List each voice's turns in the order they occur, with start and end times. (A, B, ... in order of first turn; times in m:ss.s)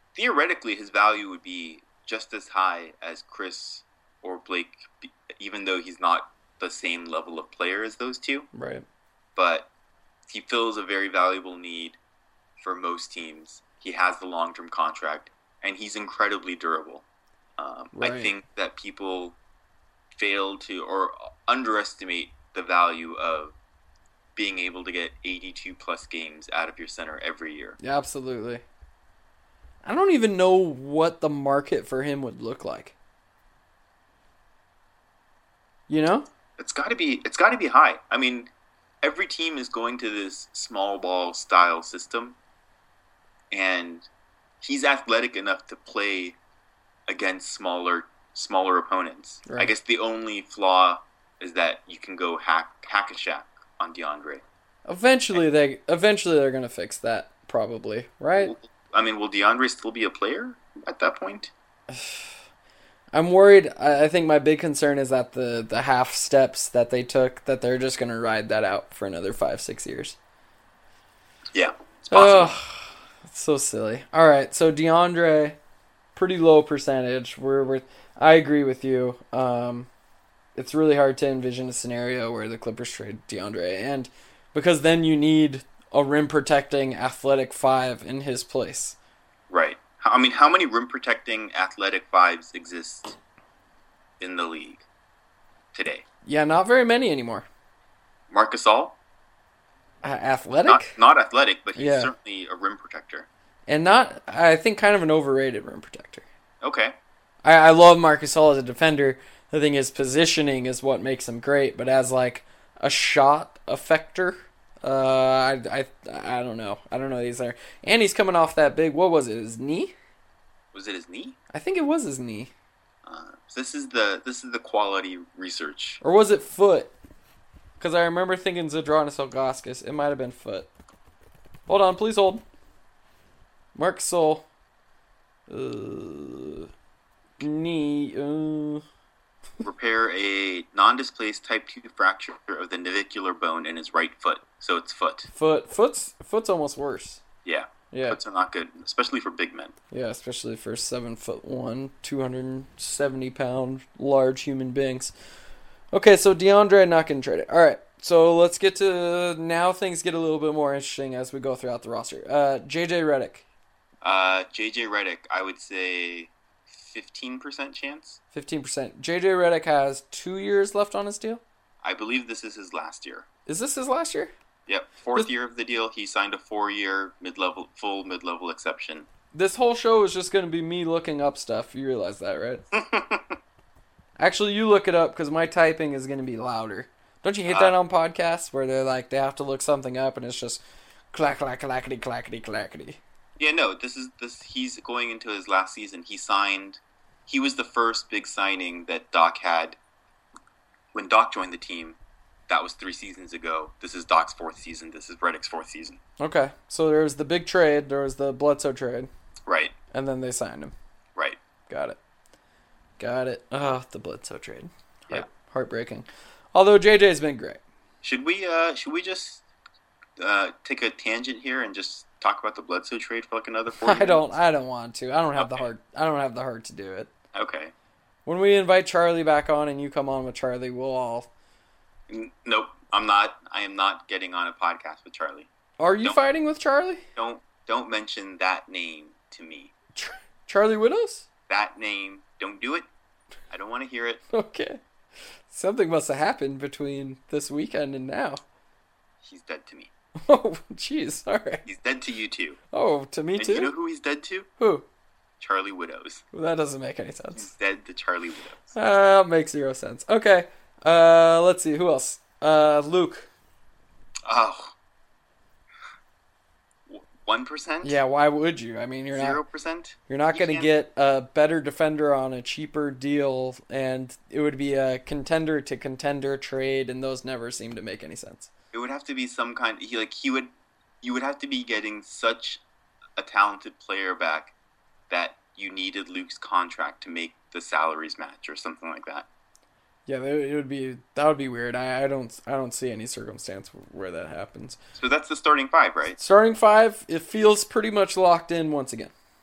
0:00.2-0:08.5 A
0:08.5-0:08.8 B
0:09.4-0:09.7 A
0:10.3-0:12.0 A
0:12.6-0:17.0 A
0:17.6-0:19.4 A
0:18.0-0:18.3 B
0:20.1-0:23.6 A
0:24.4-0:27.8 A
0:27.8-0:28.6 B
0:29.8-0:33.0 B
0:35.9-0:36.3 B
0:36.6-0:38.5 A
0:39.0-0:42.4 A
0:43.5-0:44.1 A
0:44.6-0:46.4 A
0:47.1-0:54.4 A
0:49.5-0:49.7 B
0:54.9-0:58.5 B
0:58.4-1:01.5 A
1:01.9-1:02.3 B
1:03.1-1:10.2 B
1:11.5-1:12.5 A
1:12.1-1:15.6 B
1:16.2-1:19.9 B
1:20.6-1:29.0 B
1:29.5-1:33.2 A
1:34.2-1:34.8 A
1:35.7-1:36.0 A
1:36.2-1:37.5 B
1:38.3-1:39.0 A
1:40.0-1:41.0 B
1:40.6-1:43.3 A
1:41.8-1:42.1 B
1:43.7-1:46.2 B
1:46.6-1:47.0 A
1:47.4-1:59.9 B
2:00.7-2:01.4 A
2:01.5-2:02.5 B
2:03.0-2:06.0 A
2:06.0-2:06.9 B
2:07.8-2:10.7 B
2:11.7-2:12.4 B
2:13.8-2:14.4 B
2:15.5-2:16.7 B
2:17.4-2:18.8 B
2:19.6-2:25.3 A
2:25.3-2:27.2 B
2:27.4-2:29.8 A
2:27.9-2:28.2 B
2:29.9-2:35.1 B
2:35.9-2:43.4 B
2:44.0-2:48.2 A
2:48.3-2:51.4 B
2:51.8-2:53.3 A
2:53.5-2:54.3 B
2:54.7-2:59.1 A
2:59.3-3:02.6 B
3:02.7-3:03.4 A
3:04.2-3:10.6 B
3:07.5-3:07.8 A
3:11.1-3:13.0 B
3:13.4-3:19.8 A
3:20.9-3:22.0 A
3:22.5-3:26.0 A
3:26.2-3:29.1 B
3:29.5-3:29.8 A
3:29.9-3:30.7 B
3:31.7-3:32.0 B
3:33.0-3:37.6 B
3:38.0-3:39.4 A
3:40.2-3:44.3 A
3:43.8-3:47.1 B
3:45.4-3:45.6 A
3:47.3-3:47.7 A
3:48.3-3:51.3 B
3:52.1-3:55.5 A
3:55.8-3:57.0 B
3:57.2-3:59.7 A
4:00.0-4:01.3 B
4:01.5-4:02.9 A
4:03.5-4:04.2 A
4:04.3-4:04.8 B
4:05.5-4:08.4 B
4:09.2-4:09.9 A
4:10.3-4:11.6 B
4:11.6-4:12.6 A
4:12.7-4:13.7 B
4:13.4-4:14.5 A
4:14.6-4:14.8 B
4:15.4-4:16.2 A
4:16.3-4:17.5 B
4:17.4-4:18.7 A
4:18.7-4:23.3 B
4:24.2-4:24.7 A
4:26.9-4:28.0 A
4:27.8-4:29.4 B
4:29.1-4:30.7 A
4:30.1-4:38.5 B
4:38.7-4:40.5 A
4:41.0-4:42.6 A
4:43.2-4:44.5 A
4:45.1-4:49.3 A
4:50.1-4:54.8 B
4:55.0-4:56.2 A
4:56.2-4:59.1 B